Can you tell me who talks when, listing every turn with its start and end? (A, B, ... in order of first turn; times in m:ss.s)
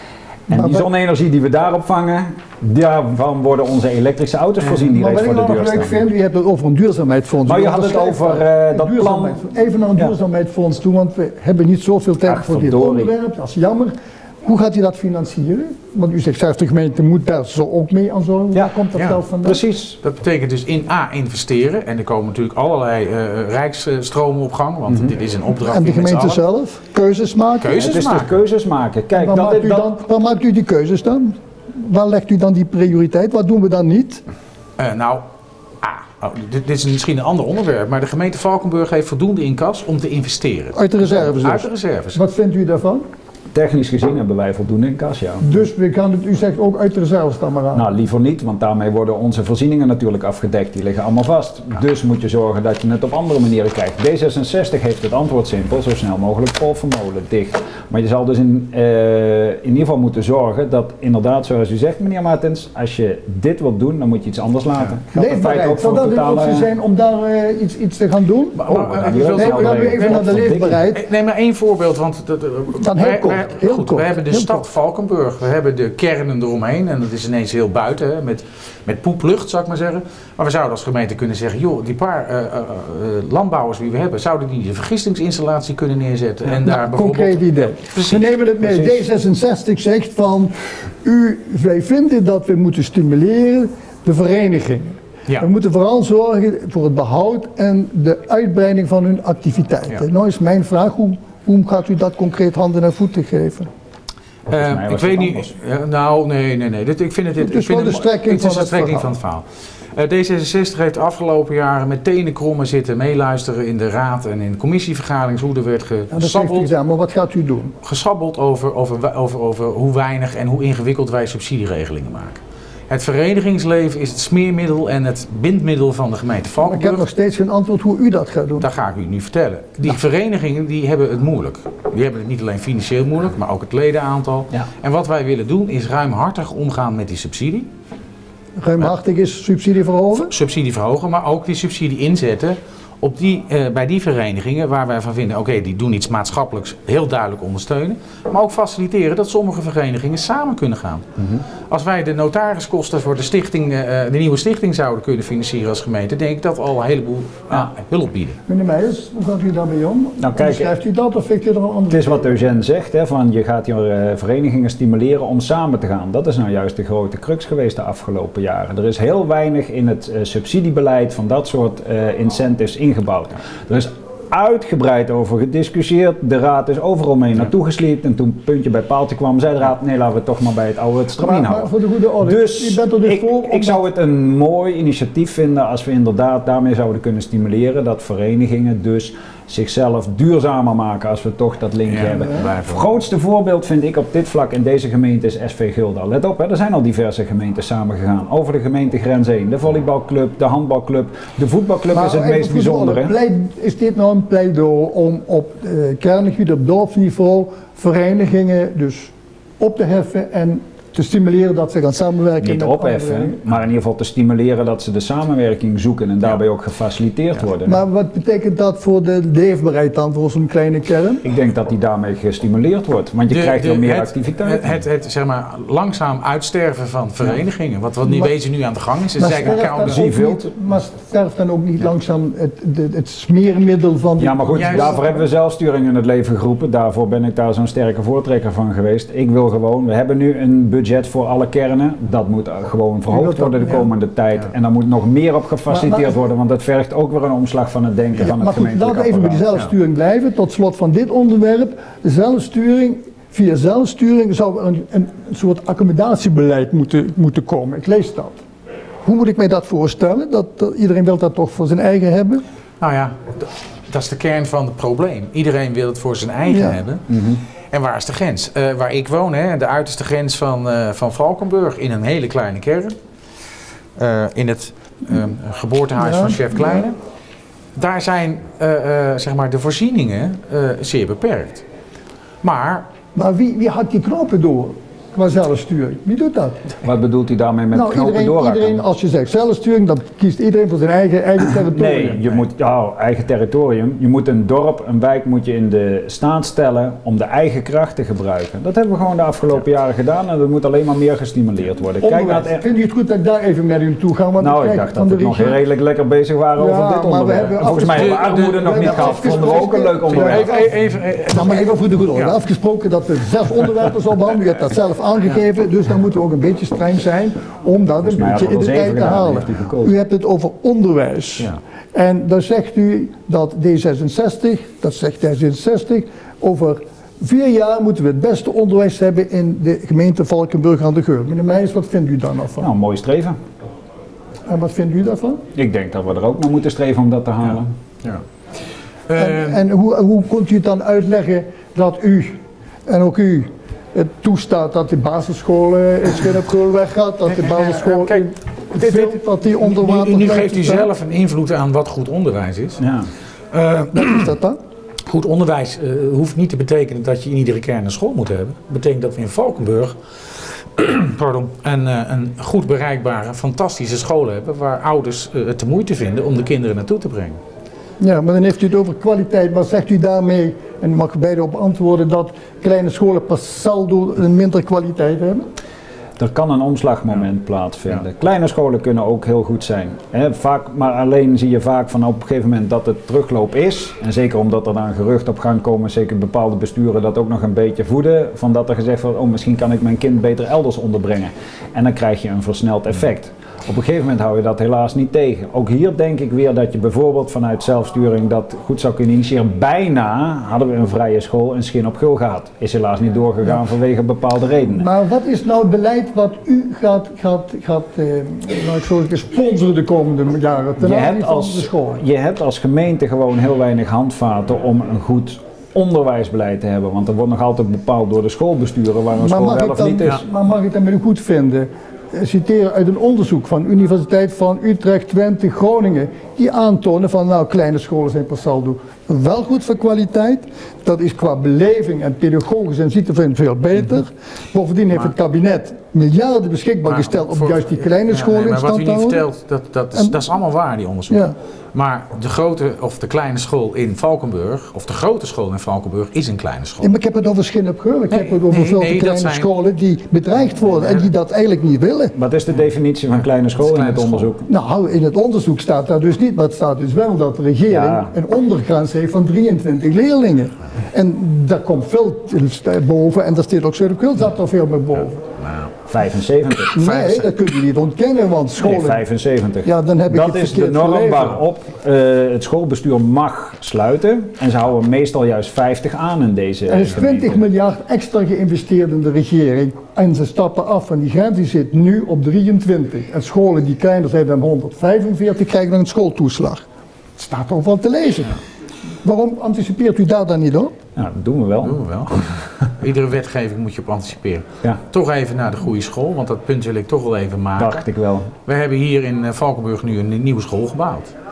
0:00.5-0:06.0 A
0:00.5-0:00.9 B
0:04.8-0:19.6 B
0:07.4-0:09.4 A
0:12.2-0:13.1 A
0:18.9-0:19.2 C
0:19.4-0:20.0 A
0:20.0-0:26.4 C
0:25.6-0:27.8 B
0:27.6-0:28.4 C
0:27.8-0:29.9 A
0:29.1-0:34.2 B
0:34.8-0:35.2 C
0:35.8-0:42.2 C
0:40.8-0:43.0 B
0:43.5-0:45.6 A
0:45.4-0:47.9 B
0:47.7-1:06.7 A
1:05.1-1:11.0 B
1:08.6-1:29.0 C
1:08.7-1:10.8 A
1:12.7-1:14.7 B
1:26.5-1:43.7 B
1:44.5-1:56.7 C
1:44.5-1:45.5 A
1:47.4-1:49.1 B
1:56.1-1:57.8 B
1:57.8-2:07.1 C
2:06.6-2:08.7 B
2:08.6-2:17.7 C
2:18.6-2:20.3 B
2:20.2-2:31.1 C
2:31.2-2:31.4 A
2:31.7-2:38.4 C
2:38.5-2:42.4 B
2:40.2-2:40.7 A
2:41.9-3:01.7 A
3:01.2-3:03.8 B
3:02.2-3:23.1 A
3:11.9-3:12.9 C
3:21.9-3:33.4 B
3:32.4-3:37.8 A
3:37.6-3:41.2 B
3:41.2-3:44.7 A
3:43.3-3:50.0 C
3:49.2-3:55.3 B
3:49.8-3:50.5 A
3:54.2-4:09.6 A
3:54.5-3:55.0 C
4:03.1-4:03.9 B
4:05.7-4:06.1 B
4:08.2-4:18.4 B
4:19.0-4:22.4 B
4:22.8-4:27.2 C
4:26.5-4:26.8 B
4:27.1-4:27.4 A
4:27.7-4:33.0 C
4:34.0-4:37.0 C
4:36.0-4:36.9 B
4:37.8-4:41.6 C
4:42.4-4:42.9 C
4:43.2-4:46.7 B
4:46.8-4:48.8 A
4:47.7-4:52.3 B
4:51.4-5:02.6 A
5:02.0-5:05.6 B
5:04.4-5:10.5 A
5:06.6-5:32.7 B
5:07.9-5:09.5 C
5:10.1-5:12.3 C
5:18.0-5:20.0 A
5:32.6-5:33.4 A
5:34.5-5:35.4 B
5:35.6-5:37.7 A
5:39.1-5:39.6 C
5:39.2-5:50.9 B
5:47.3-5:52.8 C
5:52.8-5:53.1 A
5:53.5-5:54.3 C
5:53.9-5:54.6 B
5:55.1-6:07.4 C
6:08.0-6:15.5 B
6:16.2-6:44.9 A
6:44.7-6:52.0 B
6:50.8-7:00.2 A
6:59.2-7:19.2 B
7:16.9-7:26.9 C
7:21.1-7:21.3 B
7:26.8-7:32.2 B
7:28.1-7:29.5 C
7:30.6-7:31.1 C
7:32.2-7:34.5 A
7:33.6-7:34.3 C
7:34.5-7:45.3 B
7:37.7-7:38.1 A
7:45.4-7:45.7 C
7:45.9-7:47.1 A
7:46.7-7:49.0 B
7:48.6-7:57.4 A
7:49.6-7:51.4 B
7:56.7-8:06.6 B
8:07.2-8:08.4 B
8:09.0-8:10.7 B
8:11.0-8:12.5 A
8:11.6-8:17.8 C
8:17.6-8:18.3 A
8:18.5-8:21.2 C